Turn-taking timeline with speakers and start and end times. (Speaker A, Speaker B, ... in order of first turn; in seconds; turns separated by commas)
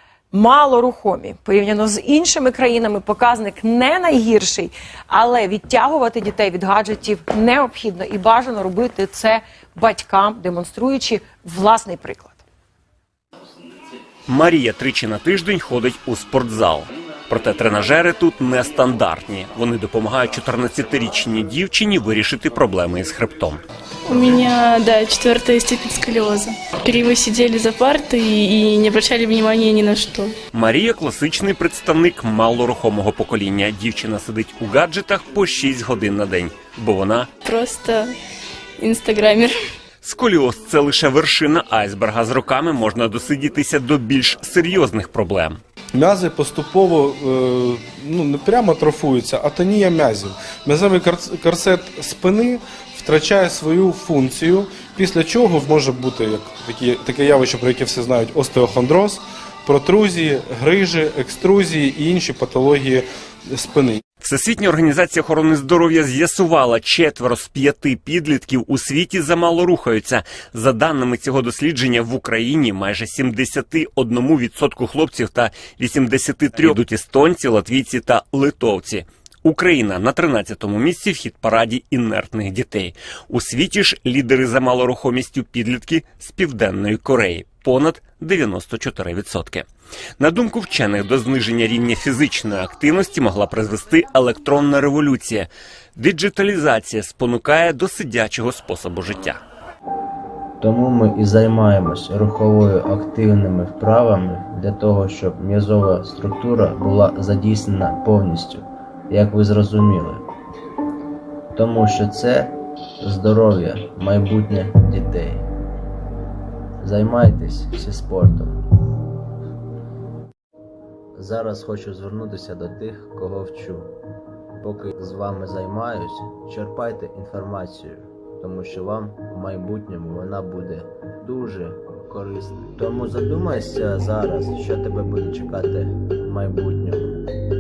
Speaker A: 0.3-12.4, Speaker B: 14.3-23.6, Speaker C: 24.1-30.4, Speaker B: 30.5-37.3, Speaker C: 37.4-38.1, Speaker C: 38.8-39.5, Speaker B: 40.0-45.6, Speaker D: 45.9-64.0, Speaker B: 64.2-89.7, Speaker B: 90.2-99.4, Speaker E: 100.6-110.3, Speaker E: 111.5-115.5, Speaker E: 116.8-118.6, Speaker E: 121.2-123.9, Speaker E: 124.6-137.2